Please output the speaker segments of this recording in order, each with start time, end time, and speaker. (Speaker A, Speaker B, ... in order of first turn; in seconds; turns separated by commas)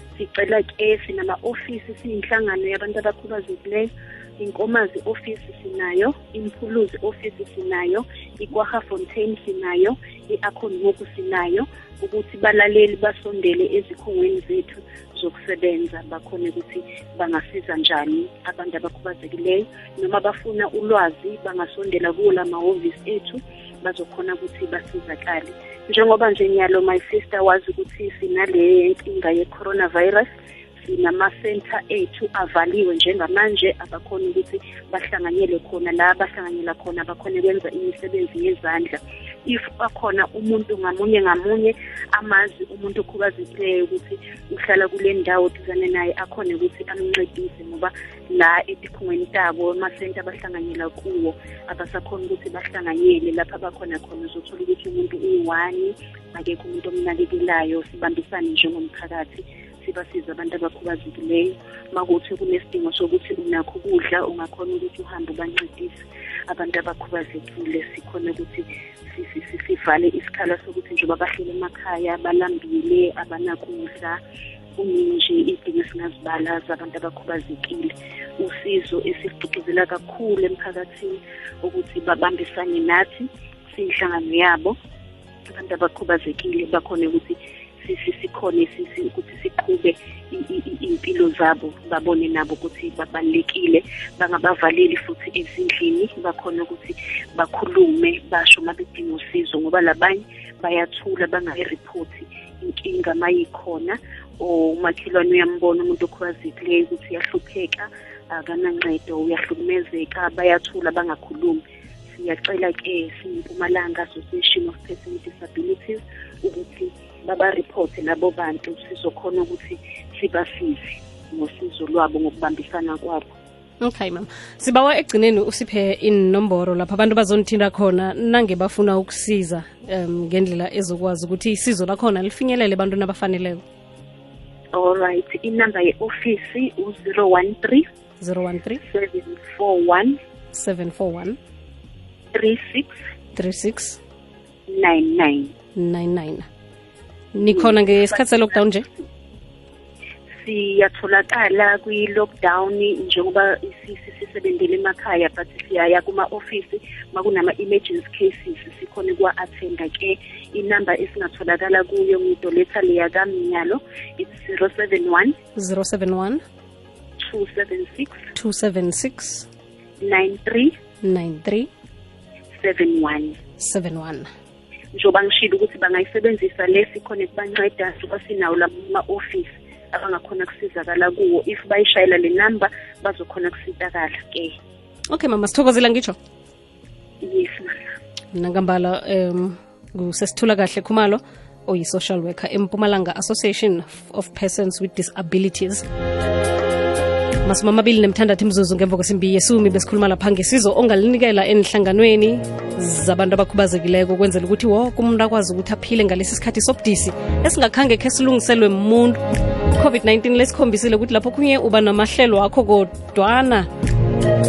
Speaker A: 0.1-74.2, Speaker A: 74.8-84.8, Speaker A: 85.5-123.3, Speaker B: 123.8-133.6, Speaker A: 134.7-137.8, Speaker B: 138.2-138.8, Speaker A: 138.8-140.2, Speaker B: 140.5-141.4, Speaker A: 142.3-143.0, Speaker B: 143.3-144.0, Speaker A: 144.7-145.5, Speaker B: 145.7-146.5, Speaker B: 147.3-148.9, Speaker A: 147.4-148.6, Speaker A: 150.4-165.3, Speaker B: 165.6-166.4, Speaker A: 167.2-168.3, Speaker B: 168.3-169.5, Speaker A: 170.0-170.7, Speaker B: 171.0-171.7, Speaker A: 172.6-173.4, Speaker B: 173.6-174.3, Speaker A: 174.9-184.5, Speaker B: 185.1-186.2, Speaker A: 187.2-187.7, Speaker B: 188.3-195.8, Speaker B: 197.4-209.2, Speaker B: 209.7-213.7